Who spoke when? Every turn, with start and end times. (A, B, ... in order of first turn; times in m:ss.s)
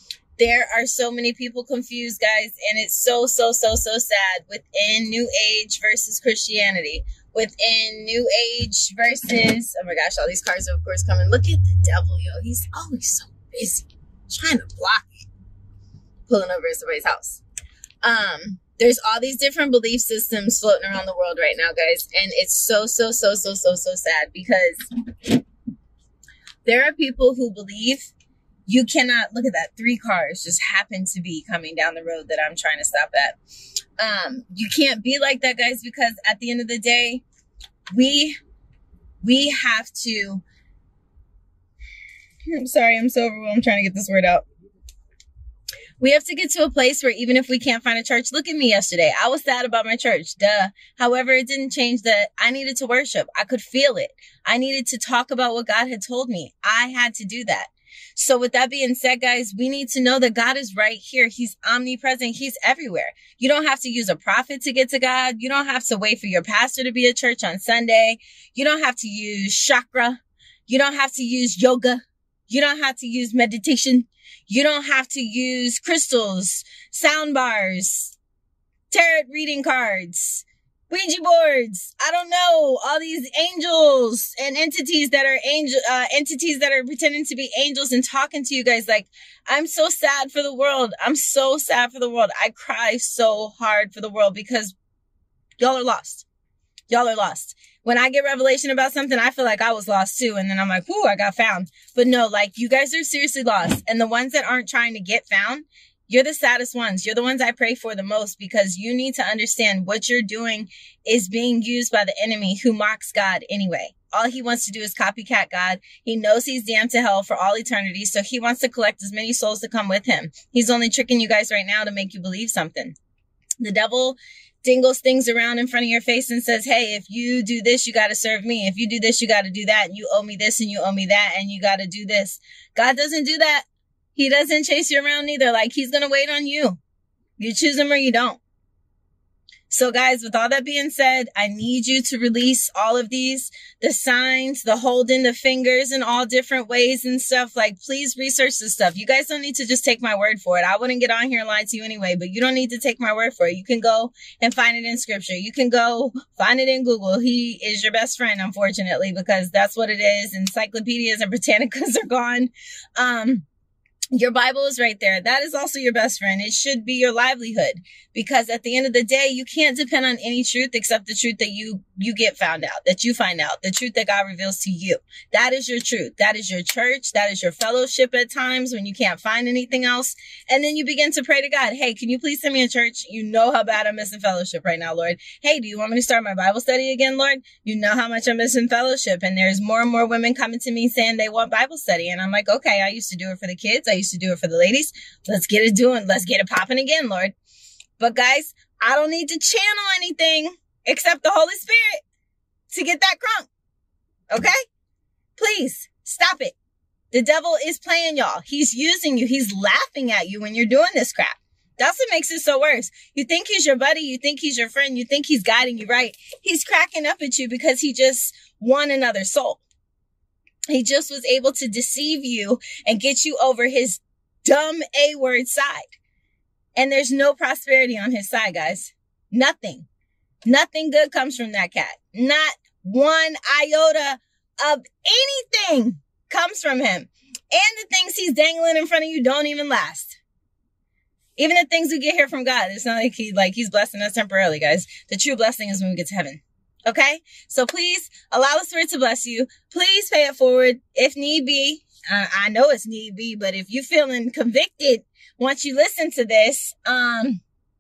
0:00.4-0:15.3 A
0:16.3-0:17.4 A
0:18.0-0:24.9 A
0:26.6-0:28.1 A
0:28.7-0:33.4 A
0:34.0-0:37.2 A
0:37.9-0:38.4 A
0:39.2-0:40.4 A
0:42.5-0:44.5 A
0:46.0-1:18.2 A
1:18.9-1:34.8 A
1:35.6-1:36.3 A
1:36.9-2:03.0 A
2:03.6-2:16.8 A
2:17.4-2:18.4 A
2:19.7-2:43.5 A
2:44.1-3:17.4 A
3:18.0-3:22.0 A
3:22.7-3:23.5 A
3:24.3-3:24.6 A
3:25.4-3:26.6 A
3:27.1-3:39.6 A
3:40.7-3:46.0 A
3:46.8-3:49.9 A
3:50.4-4:00.2 A
4:01.4-4:17.4 A